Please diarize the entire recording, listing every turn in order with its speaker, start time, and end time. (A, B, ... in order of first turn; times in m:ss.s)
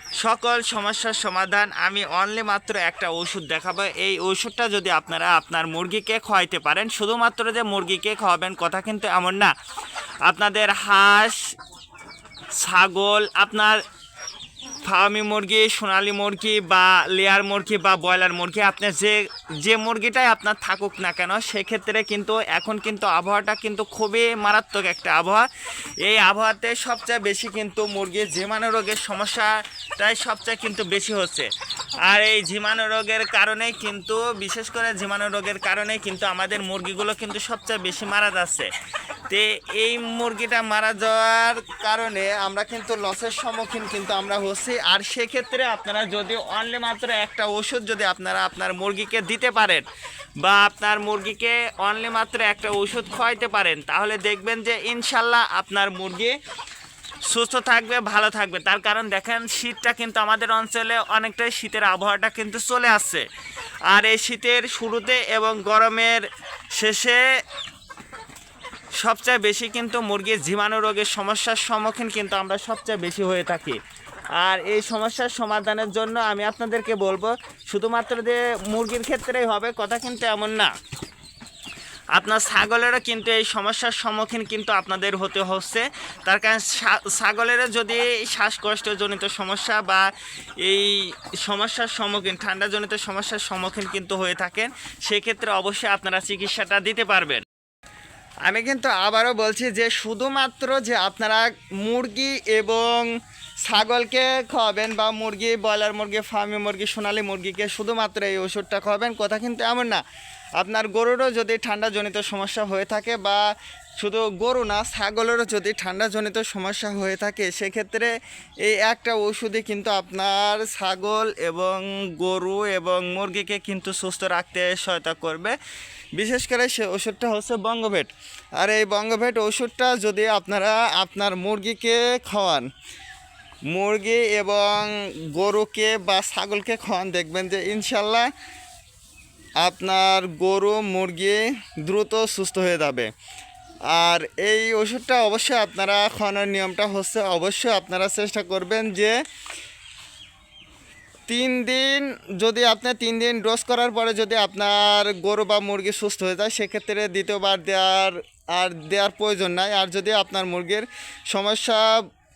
0:00.2-0:09.5 A
0:10.3-0:11.4 A
0:12.6-0:13.8 A
0:14.8-0:25.5 A
0:26.0-0:31.5 A
0:32.0-0:38.7 A
0:39.3-0:49.8 A
0:50.4-0:56.4 A
0:57.3-1:03.2 A
1:03.9-1:07.2 A
1:09.0-1:13.8 A
1:14.4-1:20.7 A
1:22.1-1:30.1 A
1:30.6-1:37.4 A
1:38.4-1:43.1 A
1:43.6-1:50.0 A
1:50.6-1:53.4 A
1:54.0-2:05.6 A
2:06.2-2:12.7 A
2:13.7-2:18.3 A
2:19.6-2:23.1 A
2:23.9-2:29.2 A
2:31.3-2:42.0 A